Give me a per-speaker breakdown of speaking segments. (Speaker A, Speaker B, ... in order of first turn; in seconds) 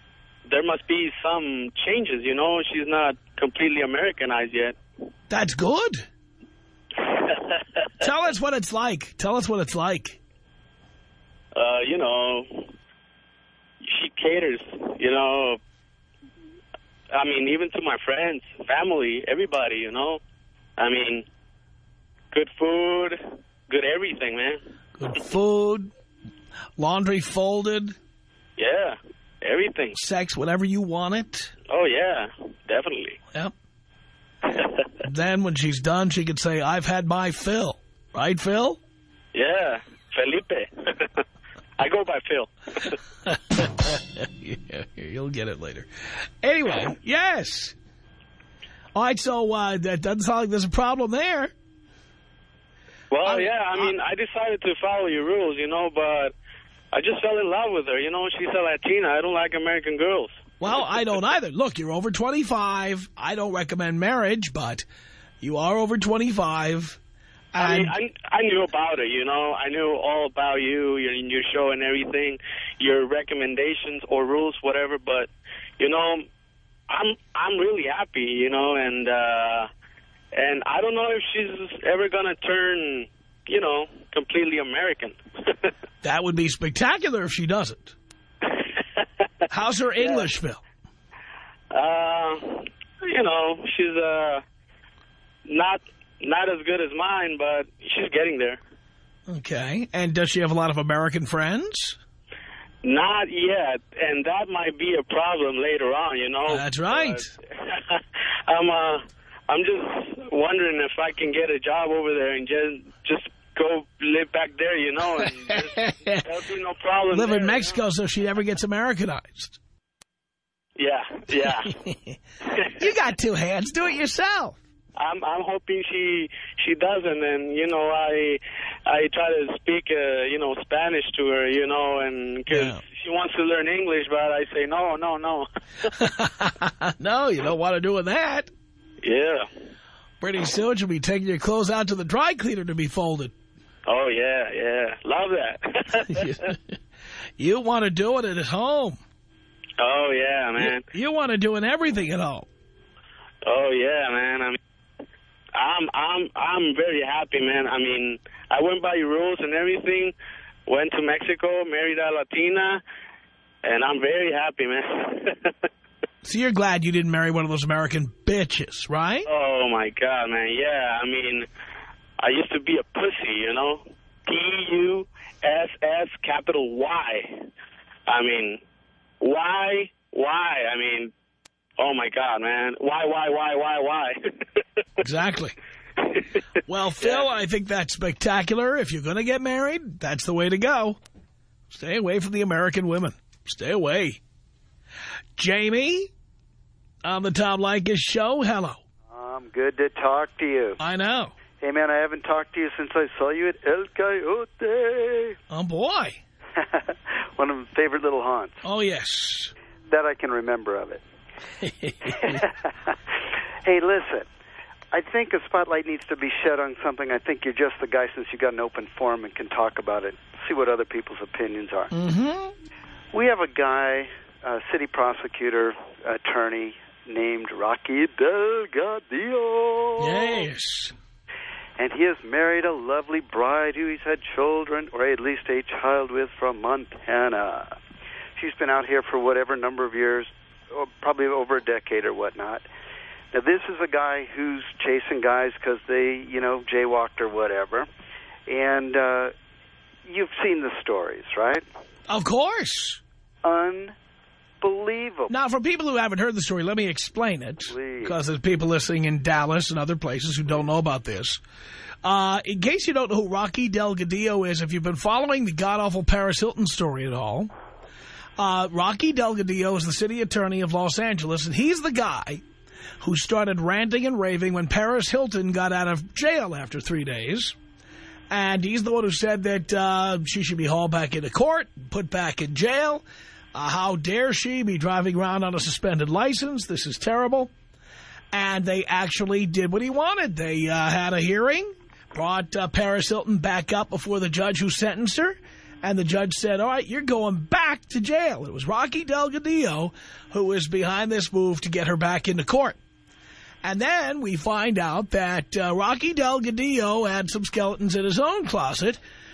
Speaker A: 0.5-4.8, 11.6-12.7, 13.8-15.6, 17.1-20.2, 20.8-21.3, 22.3-24.6, 28.6-30.0, 31.7-33.2, 39.3-40.7, 41.8-42.5, 53.1-56.3, 56.9-60.4, 67.6-76.3, 76.9-79.7, 80.3-85.2, 90.0-90.3, 91.7-94.4, 95.5-98.6, 102.8-107.3, 108.5-117.8, 120.8-121.7, 125.0-135.4, 139.0-139.4, 143.9-146.3, 149.8-150.8, 153.4-154.6, 155.6-160.1, 160.7-162.8, 163.6-165.3, 169.3-171.5, 172.2-177.4, 178.1-178.6, 179.2-181.1, 181.8-184.2, 187.0-187.3
Speaker B: 5.3-6.1, 8.0-10.2, 25.0-25.9, 26.8-28.0, 29.9-31.5, 35.0-38.8, 43.3-45.9, 46.4-47.8, 49.0-51.5, 53.2-54.0, 60.6-64.9, 65.4-67.0, 67.5-68.0, 86.0-88.0, 89.5-90.6, 99.3-102.0, 106.5-107.3, 115.2-116.4, 117.1-119.6, 121.5-122.2, 122.8-124.6, 132.5-132.8, 136.0-138.5, 140.2-143.3, 146.1-146.8, 147.4-149.0, 150.6-152.5, 166.2-169.3, 185.0-185.6, 186.7-191.0, 191.7-194.2, 195.4-196.1, 197.0-198.8, 200.8-201.3, 205.5-206.2, 208.6-209.5, 211.6-212.4, 221.9-222.5, 230.0-230.9, 252.1-253.0, 255.3-261.4, 262.0-267.5, 268.4-272.4, 273.0-277.6, 278.3-287.5, 288.3-302.8, 303.6-309.0
Speaker C: 199.1-200.8, 201.6-205.4, 207.4-208.6, 209.9-211.0, 212.2-212.5, 213.7-214.3, 214.9-221.9, 223.1-230.5, 231.8-237.8, 238.4-242.7, 243.3-247.9, 248.5-249.3, 250.1-251.6, 253.4-253.9, 254.6-255.3, 257.7-258.2